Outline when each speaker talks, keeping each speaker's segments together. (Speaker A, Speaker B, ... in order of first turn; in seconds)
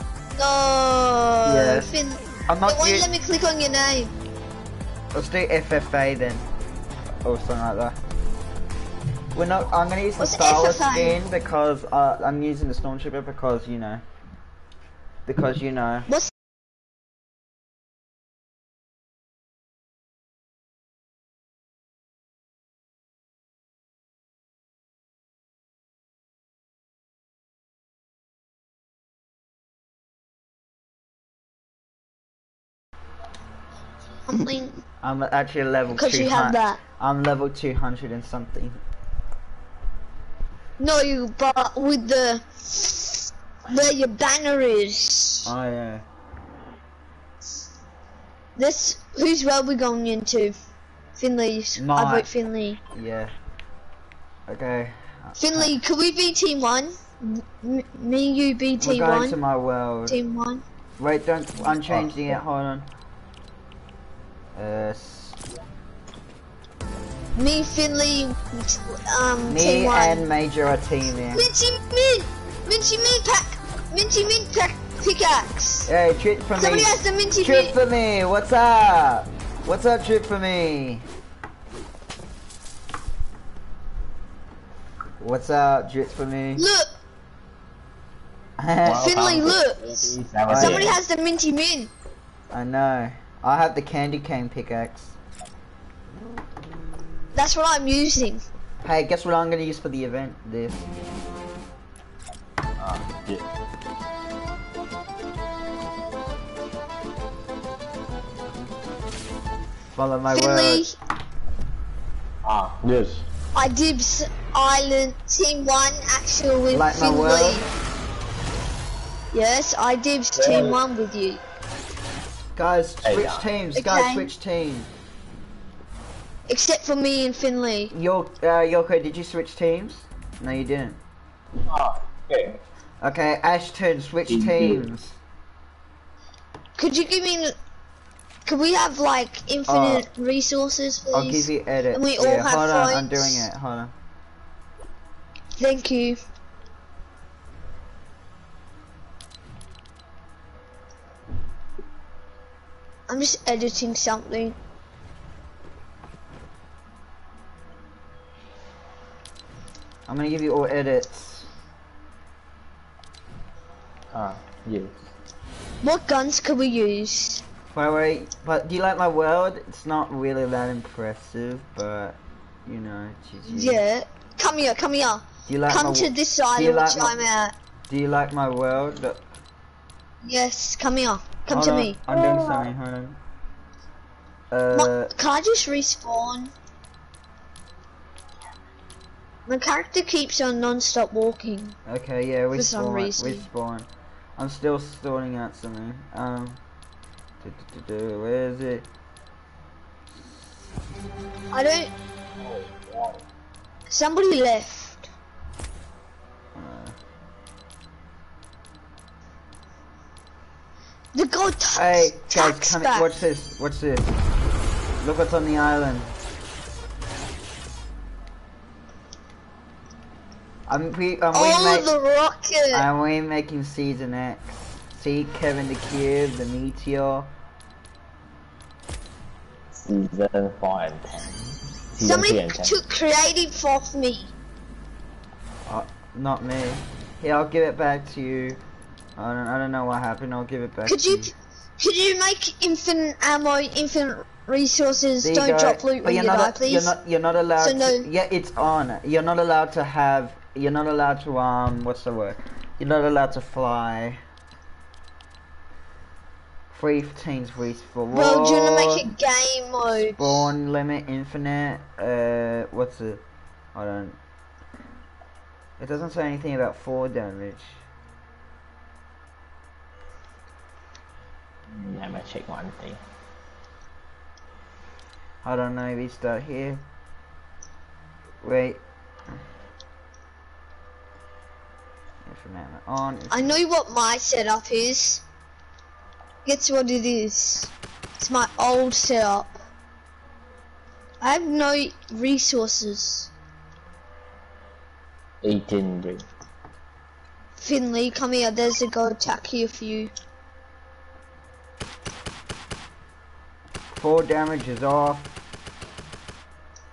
Speaker A: 0.4-4.2, 10.2-11.2, 34.3-34.8, 35.9-36.8, 40.8-45.5, 48.6-50.6, 51.2-52.8, 55.4-59.4, 60.1-60.6, 67.4-70.2, 71.3-75.9, 76.6-77.7, 86.6-86.9, 89.0-89.9, 90.5-91.9, 97.3-98.4, 110.3-110.9, 113.5-117.7, 119.3-121.4, 123.8-124.3, 126.5-127.9, 136.8-137.6, 138.5-143.4, 145.6-146.2, 153.1-154.6, 165.8-167.4, 173.5-177.5, 180.2-182.0, 184.7-186.5, 189.5-191.8, 192.5-193.5, 201.5-201.9, 203.9-205.1, 211.1-213.1, 221.3-222.9, 232.0-234.3, 240.9-246.9, 247.6-248.1, 258.1-260.5, 283.3-285.2, 286.4-289.6, 291.2-293.3, 297.6-300.1
Speaker B: 1.4-1.9, 2.5-3.1, 5.1-6.4, 7.2-8.0, 9.3-14.0, 15.3-16.1, 35.0-38.8, 45.5-46.0, 51.8-52.3, 52.9-53.3, 54.5-55.8, 58.8-60.2, 61.0-62.9, 64.5-65.4, 69.5-71.5, 75.8-81.0, 85.2-86.7, 88.6-89.5, 90.5-90.9, 92.5-95.2, 98.8-101.2, 109.9-110.8, 116.7-117.7, 122.6-124.9, 127.9-131.0, 133.0-135.2, 139.7-140.1, 141.1-143.9, 160.1-161.5, 167.7-173.8, 175.4-177.2, 177.9-179.2, 181.5-183.2, 184.5-185.1, 191.9-196.6, 197.4-198.9, 206.6-207.0, 211.7-214.2, 215.0-216.1, 220.7-221.9, 222.7-227.3, 235.7-238.6, 239.2-241.3, 245.2-254.2, 256.7-259.1, 260.0-263.2, 263.7-264.2, 265.8-267.8, 275.4-276.8, 278.4-278.8, 282.3-283.4, 304.0-305.3
Speaker C: 61.9-62.4, 88.8-91.0, 102.8-103.5, 112.4-113.2, 120.3-120.8, 123.0-123.5, 131.7-132.6, 134.3-134.9, 164.1-165.1, 202.4-203.2, 229.8-231.4, 231.9-232.8, 271.7-273.0, 295.4-296.3